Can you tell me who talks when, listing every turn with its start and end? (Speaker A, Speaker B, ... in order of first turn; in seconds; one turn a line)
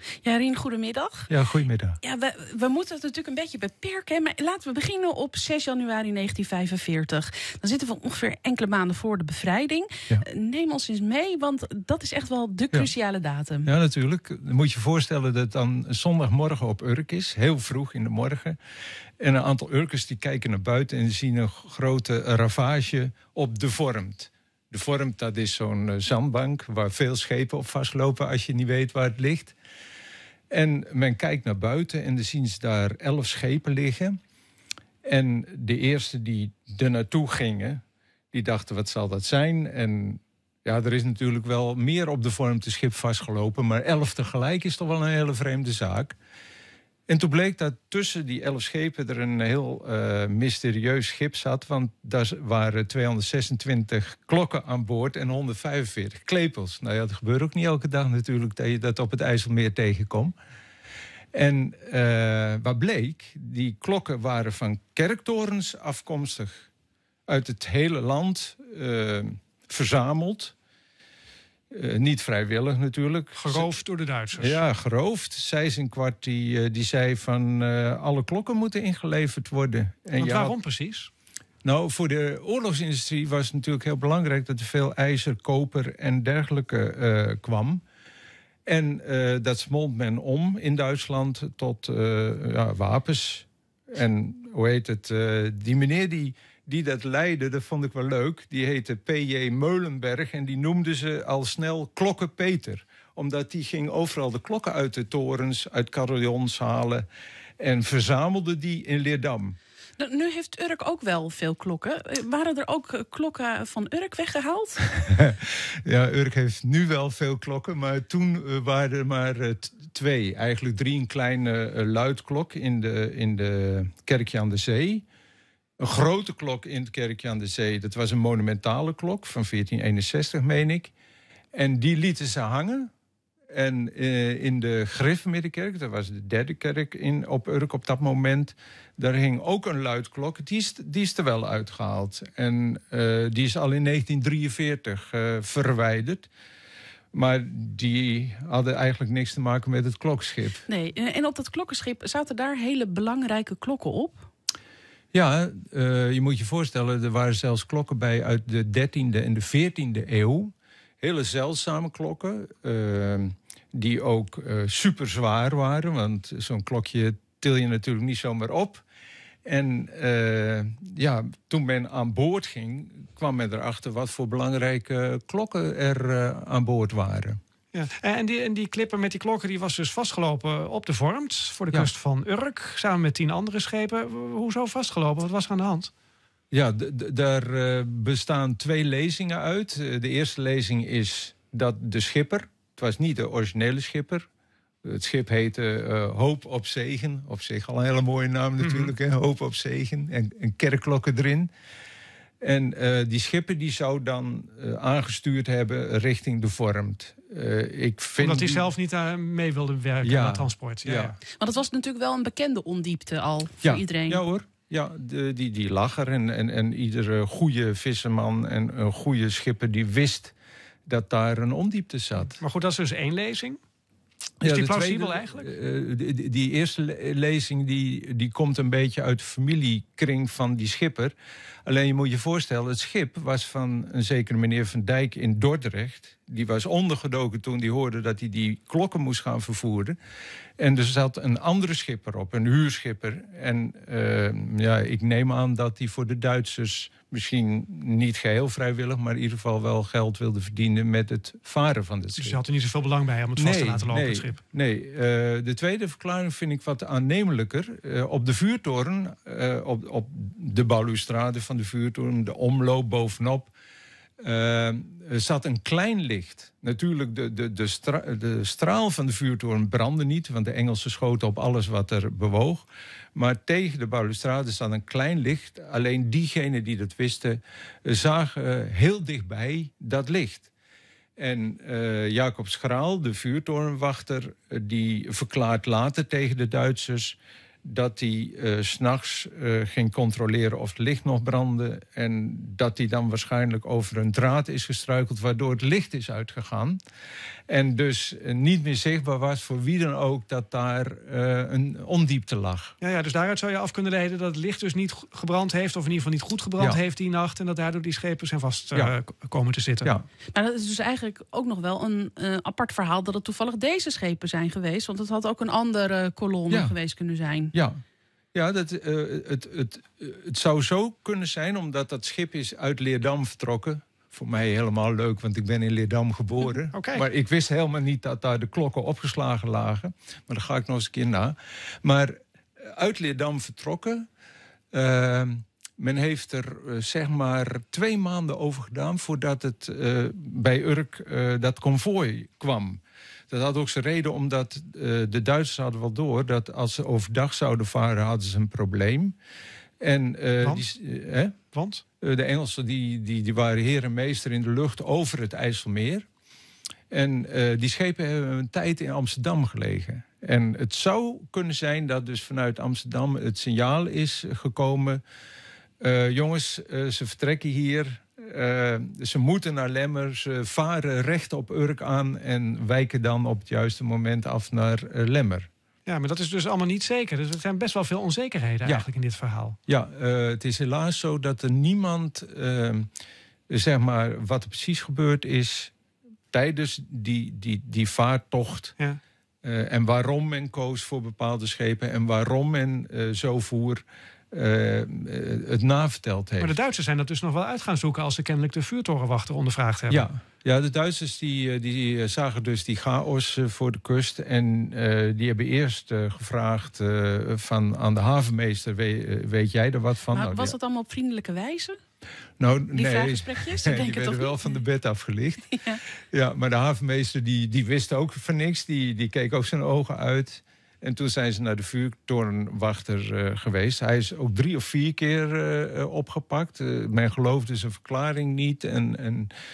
Speaker A: 0.2-1.3
Speaker B: 1.3-2.0
Speaker A: 2.0-13.7
Speaker B: 13.6-18.6
Speaker B: 19.2-29.5
Speaker B: 30.5-34.2
Speaker B: 35.0-37.8
Speaker B: 38.3-46.1
Speaker B: 47.1-60.3
Speaker B: 61.3-66.7
Speaker B: 67.3-70.5
Speaker B: 71.7-73.7
Speaker C: 73.3-74.6
Speaker B: 74.4-80.5
Speaker C: 80.2-81.1
Speaker B: 81.6-87.8
Speaker B: 88.7-107.0
Speaker B: 107.6-109.6
Speaker A: 110.0-114.8
Speaker B: 114.9-125.0
Speaker B: 125.8-130.9
Speaker B: 131.5-132.9
Speaker B: 133.5-146.3
Speaker B: 147.1-150.6
Speaker A: 150.7-154.2
Speaker B: 155.1-168.8
Speaker B: 169.4-177.4
Speaker C: 177.7-185.9
Speaker B: 186.5-194.2
Speaker B: 194.8-201.5
Speaker C: 198.6-198.9
Speaker B: 202.4-208.7
Speaker C: 208.2-211.2
Speaker B: 210.0-211.2
Speaker A: 211.3-214.2
Speaker B: 213.6-220.3
Speaker B: 220.9-222.4
Speaker C: 222.4-223.6
Speaker B: 224.4-231.1
Speaker C: 224.4-225.5
Speaker B: 231.7-240.0
Speaker B: 240.6-252.4
Speaker C: 252.2-254.4
Speaker B: 253.3-263.5
Speaker B: 264.2-280.5
Speaker B: 281.2-296.8
Speaker B: 297.5-302.7
Speaker C: 302.8-309.9
Speaker A: 310.3-317.5
Speaker B: 316.5-316.8
Speaker B: 318.3-334.1
Speaker C: 326.7-327.1
Speaker B: 334.7-349.1
Speaker B: 349.8-351.4
Speaker C: 351.5-351.8
Speaker B: 352.0-356.0
Speaker B: 356.9-365.0
Speaker B: 365.8-375.5
Speaker C: 375.8-379.6
Speaker B: 379.7-382.9
Speaker B: 383.5-385.7
Speaker B: 386.3-388.7
Speaker B: 389.4-396.6
Speaker C: 396.4-400.1
Speaker B: 399.9-410.6
Speaker A: 410.1-411.8
Speaker B: 412.4-415.6
Speaker A: 412.7-414.3
Speaker B: 416.1-429.3